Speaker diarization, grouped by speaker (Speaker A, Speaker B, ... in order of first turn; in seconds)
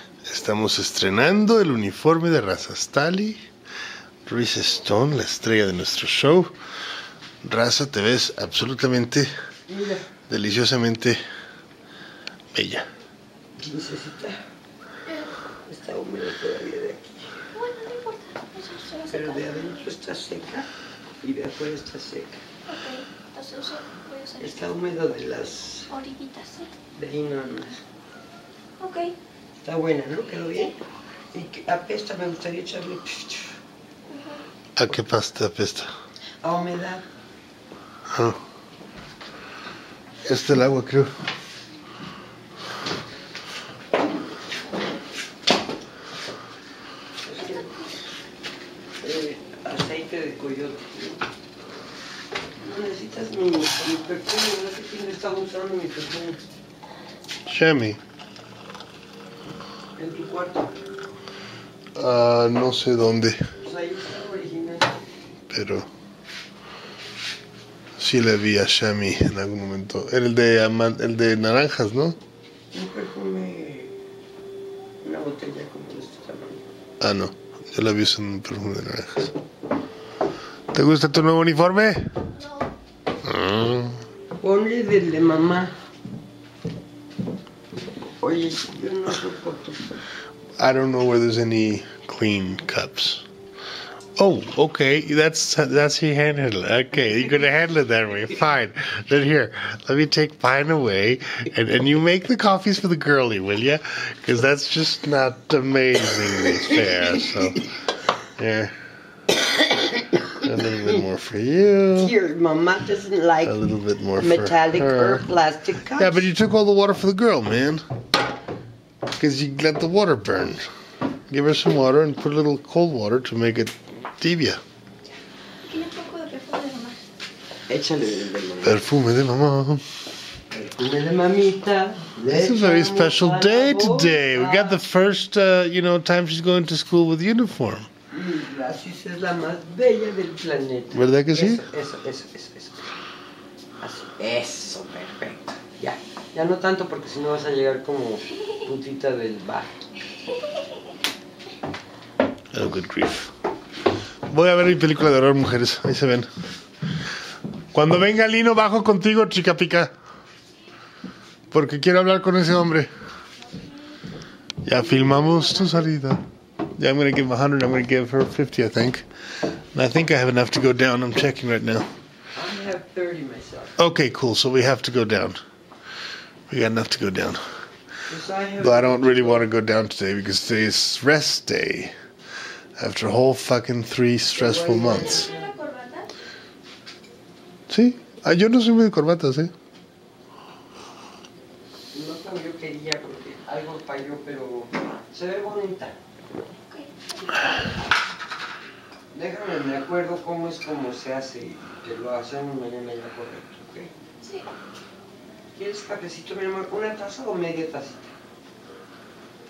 Speaker A: 0.2-3.4, 4.3-6.5, 7.4-9.3, 10.3-11.2, 12.5-12.9, 34.8-35.9, 38.1-38.4, 40.2-41.1, 57.5-58.0, 62.0-63.4, 65.5-65.9, 68.0-72.2, 77.0-79.3, 80.7-82.1, 83.2-84.0, 90.6-93.2, 94.2-107.7, 108.4-108.7, 110.4-112.2, 113.5-115.2, 116.0-117.8, 119.2-120.7, 121.3-124.6, 128.6-129.8, 132.3-137.9, 140.9-141.7, 152.5-153.3, 154.3-156.3, 157.7-159.9, 161.5-162.9, 164.6-166.2, 166.8-169.1, 169.7-171.9, 173.8-175.4, 176.5-177.4, 178.6-181.9, 182.8-185.3, 187.7-189.5
Speaker B: 9.7-10.1, 13.6-14.4, 15.7-17.3, 19.1-20.7, 21.2-22.4, 24.4-25.9, 26.9-27.8, 29.6-30.8, 31.3-33.5, 36.4-37.1, 47.2-47.8, 49.0-51.2, 52.6-56.4, 60.0-60.7, 63.6-65.0, 72.7-73.9, 75.0-76.6, 84.4-85.7, 88.2-89.9, 109.6-110.3, 112.0-113.6, 114.2-116.3, 127.7-128.8, 130.5-134.8, 138.1-142.9, 143.8-149.7, 164.8-165.8, 172.3-173.8, 178.1-179.5, 184.4-185.6, 191.9-196.0, 199.1-203.9, 205.5-208.1
Speaker C: 17.5-19.7, 22.7-24.6, 25.9-26.7, 28.8-29.1, 34.1-34.4, 125.6-127.0, 184.9-186.1, 196.7-197.5, 204.2-204.5